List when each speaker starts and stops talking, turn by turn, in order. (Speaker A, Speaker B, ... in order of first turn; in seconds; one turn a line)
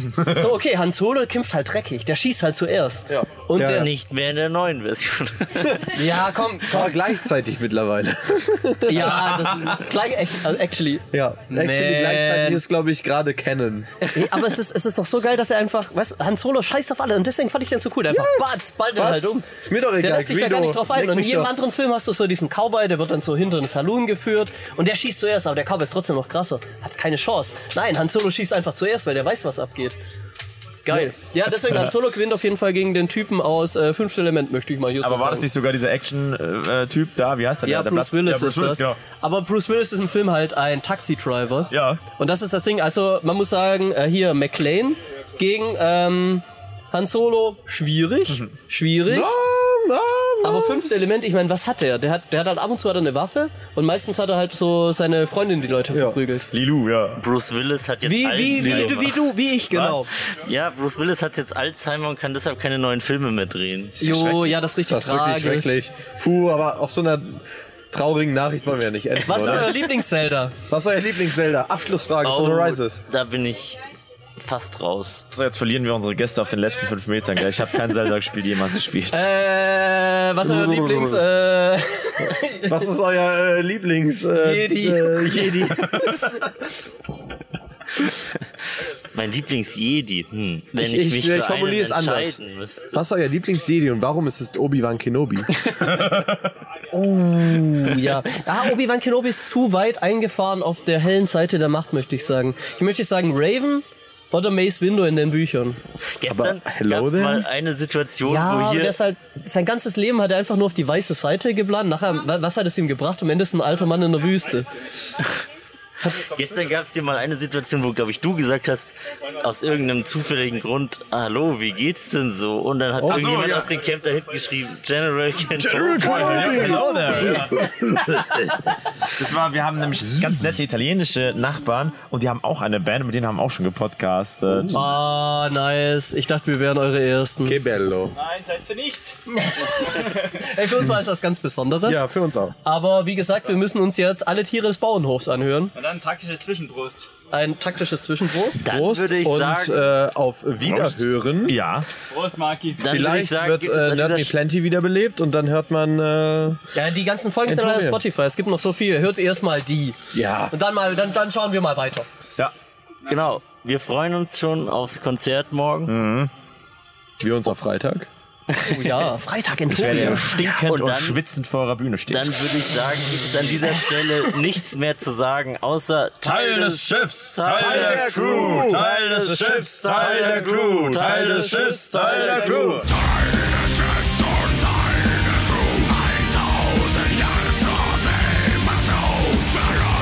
Speaker A: 0.2-3.9
Speaker B: 3.1-3.9
Speaker C: 3.6-5.9
Speaker A: 5.9-6.9
Speaker B: 6.7-9.2
Speaker A: 8.8-12.6
Speaker D: 9.1-9.8
Speaker B: 11.1-13.9
Speaker A: 14.1-19.4
Speaker B: 18.1-21.5
Speaker A: 20.0-30.0
Speaker A: 30.9-35.5
Speaker D: 35.0-39.0
Speaker A: 37.7-49.3
Speaker D: 41.7-42.0
Speaker B: 49.1-50.8
Speaker A: 50.4-56.5
Speaker B: 55.9-56.2
Speaker D: 56.5-57.2
Speaker C: 57.2-59.1
Speaker A: 58.0-60.1
Speaker D: 58.5-59.1
Speaker D: 59.7-60.1
Speaker C: 59.8-64.1
Speaker D: 64.0-64.7
Speaker A: 64.0-65.8
Speaker B: 64.8-69.8
Speaker A: 69.2-70.5
Speaker D: 69.3-69.7
Speaker B: 70.7-73.0
Speaker C: 72.2-73.8
Speaker C: 74.4-75.3
Speaker D: 75.3-79.3
Speaker A: 79.1-82.9
Speaker B: 80.4-81.2
Speaker B: 82.7-86.1
Speaker A: 84.4-86.2
Speaker C: 89.1-93.0
Speaker B: 90.8-92.4
Speaker B: 92.9-95.5
Speaker D: 95.8-96.4
Speaker A: 96.9-105.8
Speaker C: 106.2-109.0
Speaker B: 106.3-107.5
Speaker A: 108.2-114.7
Speaker C: 116.0-126.8
Speaker D: 123.0-123.7
Speaker B: 125.5-127.9
Speaker D: 125.9-127.9
Speaker D: 129.1-134.9
Speaker B: 134.5-134.8
Speaker A: 134.7-137.6
Speaker B: 137.4-138.2
Speaker E: 138.2-139.2
Speaker A: 139.3-142.1
Speaker E: 139.8-140.4
Speaker B: 141.9-142.6
Speaker A: 142.7-145.7
Speaker E: 145.7-147.1
Speaker A: 147.3-148.6
Speaker C: 148.6-149.8
Speaker B: 148.7-151.6
Speaker D: 150.7-151.9
Speaker E: 152.1-152.8
Speaker C: 152.8-154.4
Speaker B: 152.8-156.6
Speaker A: 156.7-160.0
Speaker B: 157.5-158.0
Speaker B: 160.1-160.5
Speaker A: 160.5-162.1
Speaker C: 163.1-165.9
Speaker D: 165.9-166.3
Speaker B: 167.2-168.1
Speaker A: 168.6-170.3
Speaker D: 169.7-172.4
Speaker C: 170.3-171.2
Speaker C: 172.1-182.9
Speaker D: 176.2-182.9
Speaker B: 177.5-181.2
Speaker B: 182.2-182.8
Speaker D: 184.2-184.9
Speaker D: 185.7-189.4